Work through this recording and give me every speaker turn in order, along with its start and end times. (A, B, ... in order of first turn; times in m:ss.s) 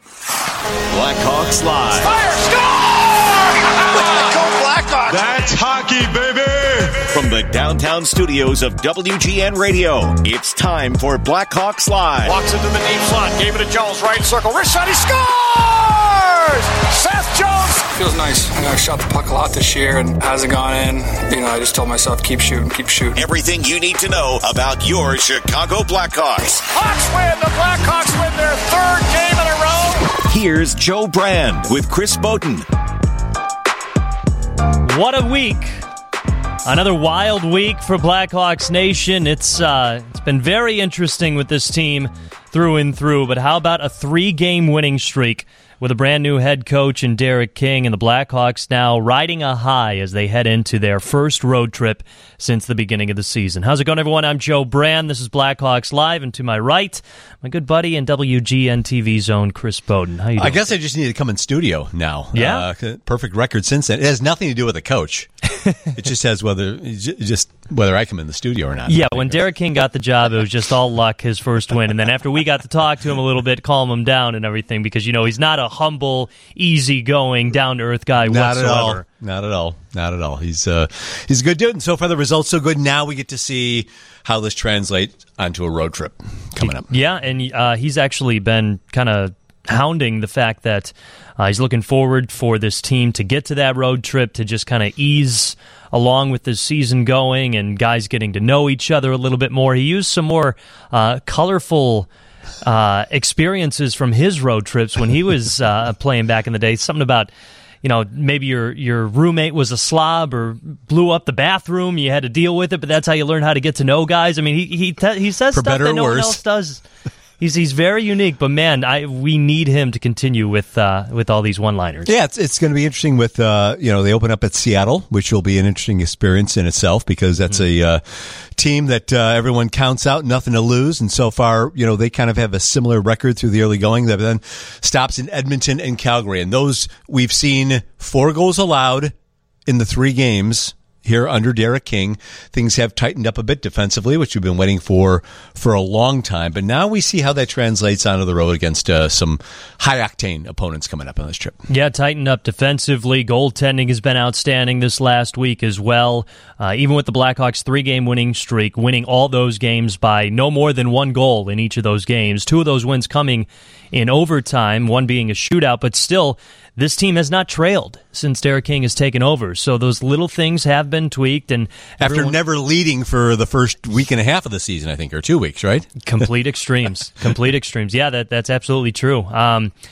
0:00.9-0:02.1 A
0:01.9-0:05.4 B
0:04.0-0:05.2 A
0:05.1-0:07.1 C
0:07.1-0:12.4 A
0:12.2-0:17.9 B
0:17.9-0:23.2 D
0:23.2-0:26.6 A
0:26.7-0:30.2 B
0:30.2-0:32.6 A
0:34.8-0:35.7 E
0:36.6-1:00.7 E
1:00.4-1:05.3 F
1:02.3-1:02.6 E
1:05.9-1:09.5 F
1:08.9-1:19.0 E
1:18.2-1:26.9 F
1:26.6-1:42.1 E
1:42.6-1:47.3 E
1:47.8-1:56.8 E
1:55.5-1:56.4 F
1:57.4-2:02.1 E
2:02.0-2:19.1 F
2:19.6-2:31.6 F
2:31.7-2:52.4 E
2:52.0-2:56.0 F
2:56.0-2:59.7 E